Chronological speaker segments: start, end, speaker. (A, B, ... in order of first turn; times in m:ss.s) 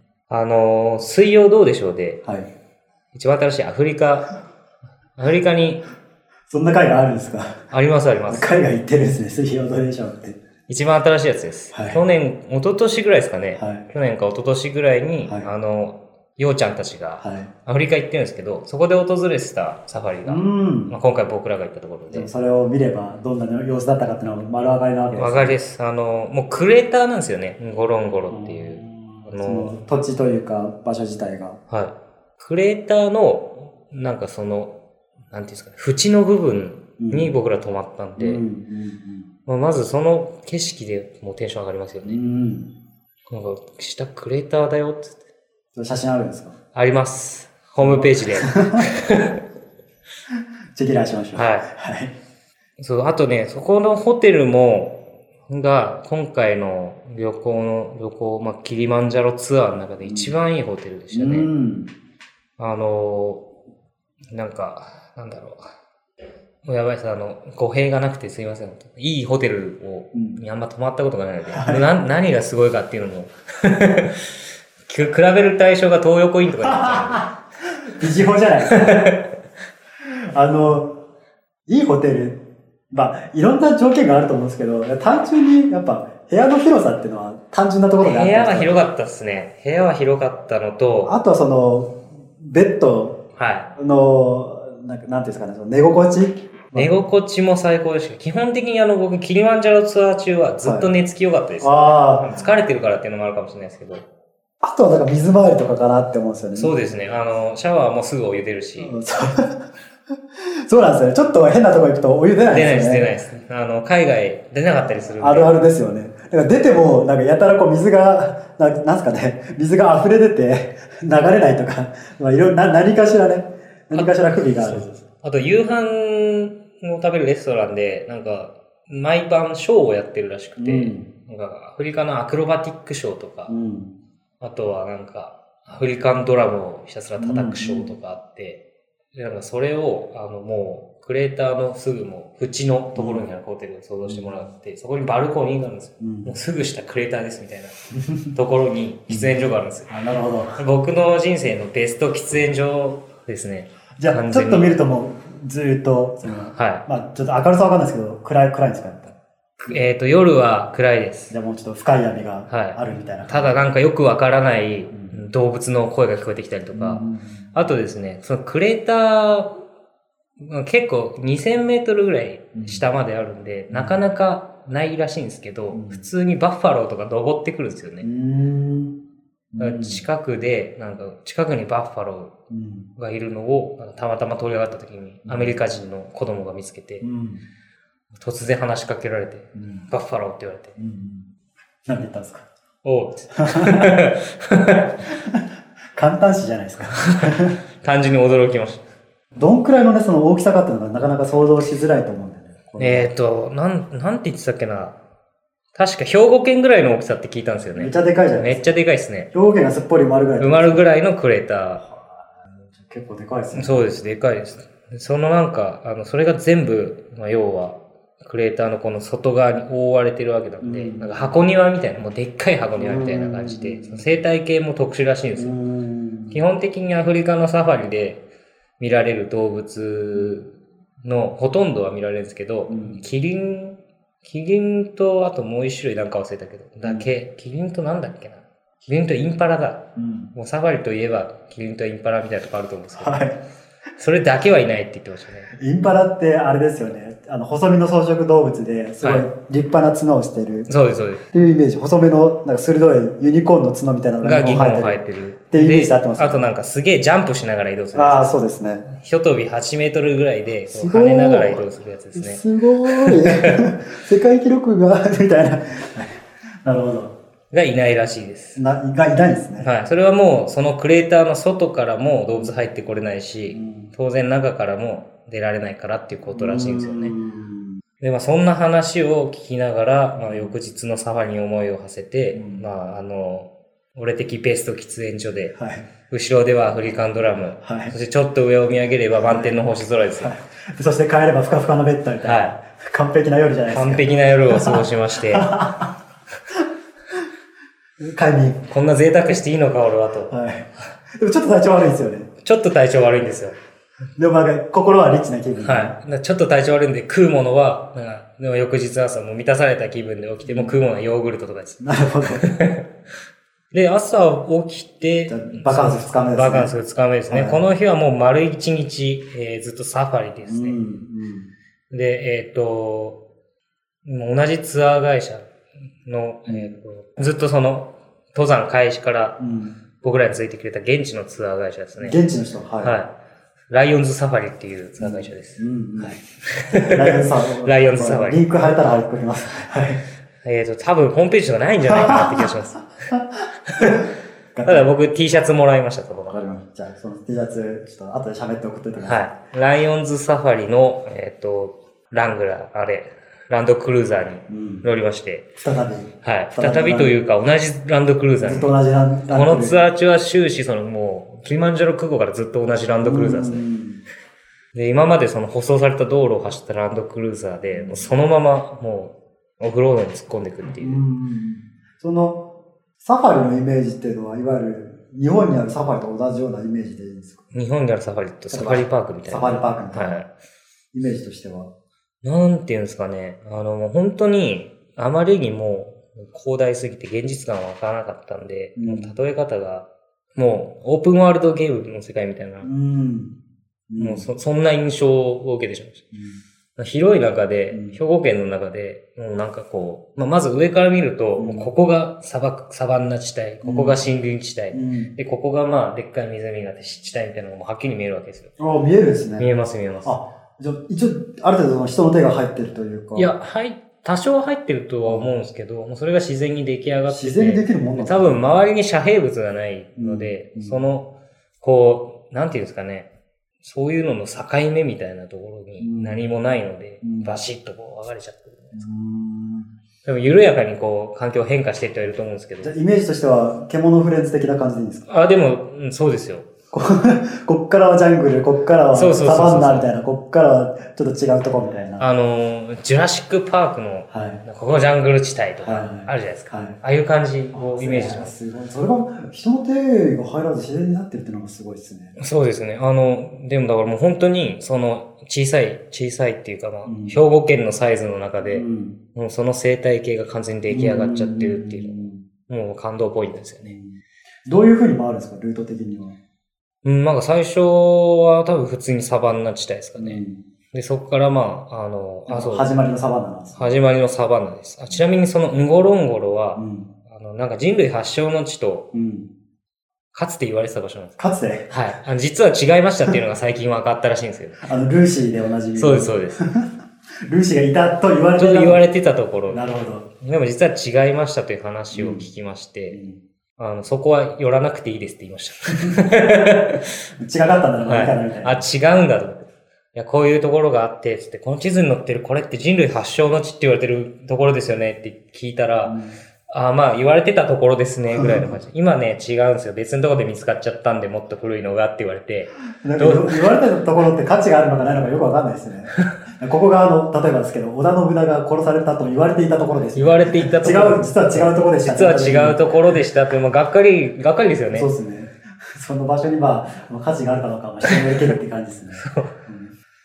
0:00.3-0:02.2 A
0:02.2-0:02.5 B
0:03.1-0:04.3 A
0:05.2-0:05.8 A
0:06.5-0:07.6 B
0:07.7-0:08.5 A
0:08.3-0:10.4 B
0:10.7-0:22.3 A
0:11.7-0:12.0 B
0:13.6-0:13.9 B
0:15.2-0:15.5 B
0:17.2-0:17.5 B
0:20.2-0:20.9 B
0:22.1-0:25.6 B
0:25.1-0:29.7 A
0:28.3-0:31.6 B
0:31.7-0:34.8 A
0:35.3-0:38.4 A
0:37.0-0:37.3 B
0:38.2-0:39.3 B
0:39.4-0:42.2 A
0:42.0-0:42.7 B
0:43.3-0:45.2 A
0:45.7-0:46.6 B
0:46.7-0:49.4 A
0:47.8-0:48.9 B
0:50.7-0:52.1 B
0:51.3-0:51.7 A
0:52.8-1:01.5 A
1:00.0-1:00.3 B
1:01.1-1:01.9 B
1:02.6-1:03.4 A
1:04.3-1:05.6 A
1:06.6-1:17.3 A
1:10.1-1:10.4 B
1:11.5-1:11.9 B
1:16.6-1:19.0 B
1:18.7-1:19.3 A
1:20.0-1:21.0 B
1:21.7-1:28.8 B
1:28.0-1:31.1 A
1:31.0-1:33.2 B
1:33.4-1:33.7 A
1:33.8-1:36.9 B
1:36.7-1:44.0 A
1:40.6-1:40.9 B
1:41.6-1:42.4 B
1:44.6-1:46.7 B
1:46.6-1:48.9 A
1:48.8-1:49.7 B
1:50.6-1:53.1 B
1:52.5-1:55.5 A
1:55.2-2:05.0 B
2:03.9-2:13.5 A
2:10.6-2:11.1 B
2:13.5-2:14.0 B
2:14.4-2:18.6 A
2:17.2-2:17.9 B
2:19.1-2:27.8 A
2:23.0-2:23.3 B
2:24.0-2:24.4 B
2:26.0-2:26.3 B
2:28.1-2:28.3 B
2:28.3-2:29.9 A
2:29.9-2:30.6 B
2:30.6-2:34.7 A
2:34.0-2:39.8 B
2:36.5-2:36.8 A
2:39.7-2:41.3 A
2:41.3-2:43.6 B
2:42.5-2:49.5 A
2:44.9-2:45.2 B
2:46.7-2:47.5 B
2:50.4-2:58.0 A
2:52.5-2:52.8 B
2:53.7-2:54.0 B
2:55.7-2:56.0 B
2:58.0-2:59.0 B
2:59.5-3:00.0 B
2:59.6-3:02.3 A
3:02.5-3:02.9 B
3:03.0-3:07.0 A
3:05.2-3:05.5 B
3:07.0-3:07.4 B
3:08.1-3:10.8 A
3:09.5-3:09.9 B
3:10.8-3:11.3 B
3:11.8-3:12.5 B
3:12.8-3:15.0 A
3:13.3-3:14.0 B
3:15.0-3:15.4 B
3:16.0-3:17.6 B
3:17.2-3:18.8 A
3:19.3-3:23.1 B
3:22.8-3:25.0 A
3:25.7-3:29.3 A
3:27.8-3:28.7 B
3:29.3-3:30.8 B
3:30.4-3:31.8 A
3:31.8-3:33.9 B
3:33.5-3:45.5 A
3:40.6-3:41.3 B
3:42.8-3:44.1 B
3:45.4-3:46.4 B
3:46.3-3:48.2 A
3:48.8-4:03.2 A
3:52.7-3:53.0 B
3:56.8-3:57.1 B
4:00.0-4:00.3 B
4:03.0-4:03.4 B
4:04.0-4:05.5 A
4:05.5-4:10.7 B
4:09.0-4:09.2 A
4:10.7-4:11.3 A
4:11.3-4:15.0 B
4:14.2-4:18.3 A
4:15.5-4:16.5 B
4:17.9-4:18.9 B
4:18.9-4:23.6 A
4:20.7-4:27.2 B
4:27.5-4:28.6 A
4:28.6-4:29.7 B
4:29.6-4:37.1 A
4:33.5-4:33.9 B
4:36.3-4:37.8 B
4:38.0-4:45.5 A
4:40.3-4:40.5 B
4:42.3-4:42.6 B
4:45.5-4:45.9 B
4:46.1-4:50.3 A
4:47.6-4:47.9 B
4:49.2-4:49.6 B
4:50.2-4:55.9 B
4:52.2-4:52.5 A
4:53.7-4:55.5 A
4:58.0-4:58.7 B
4:58.7-5:00.3 A
5:00.3-5:02.3 B
5:02.4-5:03.6 A
5:04.2-5:06.0 B
5:05.6-5:12.9 A
5:10.4-5:10.8 B
5:11.8-5:12.5 B
5:13.7-5:20.8 A
5:15.3-5:16.7 B
5:17.3-5:17.6 B
5:20.4-5:21.5 B
5:21.9-5:23.2 A
5:24.0-5:25.5 A
5:26.0-5:29.4 A
5:29.4-5:29.8 B
5:30.0-5:32.2 A
5:32.0-5:32.9 B
5:32.8-5:33.1 A
5:33.7-5:38.4 A
5:35.0-5:40.0 B
5:40.4-5:42.8 A
5:41.9-5:42.5 B
5:43.1-5:44.9 B
5:43.7-5:44.0 A
5:44.6-5:46.4 A
5:46.3-5:49.3 B
5:49.0-5:55.5 A
5:54.5-5:54.8 B
5:55.6-5:57.1 B
5:56.2-5:58.7 A
5:58.4-5:59.8 B
5:59.3-6:03.6 A
6:03.0-6:04.0 B
6:04.7-6:11.0 A
6:07.7-6:08.1 B
6:10.8-6:12.4 B
6:13.0-6:17.4 B
6:17.5-6:20.3 A
6:18.5-6:20.2 B
6:20.9-6:21.7 B
6:22.2-6:32.7 A
6:28.8-6:29.1 B
6:32.6-6:33.4 B
6:33.9-6:34.3 B
6:34.0-6:36.0 A
6:36.1-6:36.4 B
6:36.8-6:48.5 A
6:37.7-6:38.0 B
6:41.4-6:41.7 B
6:43.6-6:44.0 B
6:44.7-6:45.1 B
6:48.6-6:49.5 B
6:49.4-6:50.2 A
6:50.0-6:53.3 B
6:53.2-7:01.1 A
6:55.0-6:55.3 B
6:57.1-6:58.4 B
7:00.0-7:00.8 B
7:01.6-7:03.1 A
7:03.6-7:08.8 A
7:05.8-7:06.2 B
7:07.0-7:07.4 B
7:08.8-7:09.7 B
7:10.0-7:12.7 A
7:12.6-7:15.1 B
7:15.1-7:16.5 A
7:16.7-7:22.1 B
7:18.9-7:19.9 A
7:22.0-7:28.3 A
7:24.1-7:24.4 B
7:25.6-7:26.8 B
7:27.5-7:32.2 B
7:32.2-7:38.6 A
7:36.8-7:37.2 B
7:38.4-7:39.0 B
7:39.1-7:43.7 A
7:40.7-7:42.2 B
7:43.6-7:46.2 B
7:46.8-7:50.2 A
7:50.0-7:50.4 B
7:50.7-7:52.7 A
7:52.3-7:53.7 B
7:53.6-7:58.9 A
7:56.6-7:56.9 B
7:58.9-7:59.3 B
8:00.1-8:01.2 A
8:01.2-8:01.7 B
8:01.7-8:04.7 A
8:04.6-8:08.8 B
8:05.8-8:06.4 A
8:08.4-8:09.6 A
8:09.5-8:10.1 B
8:10.2-8:13.0 A
8:11.9-8:12.3 B
8:12.9-8:13.2 B
8:13.6-8:16.9 A
8:17.2-8:18.6 B
8:17.8-8:26.0 A
8:25.8-8:26.2 B
8:26.5-8:33.4 A
8:28.1-8:28.6 B
8:32.8-8:42.6 B
8:39.9-8:44.9 A
8:44.7-8:49.7 B
8:49.0-8:49.3 A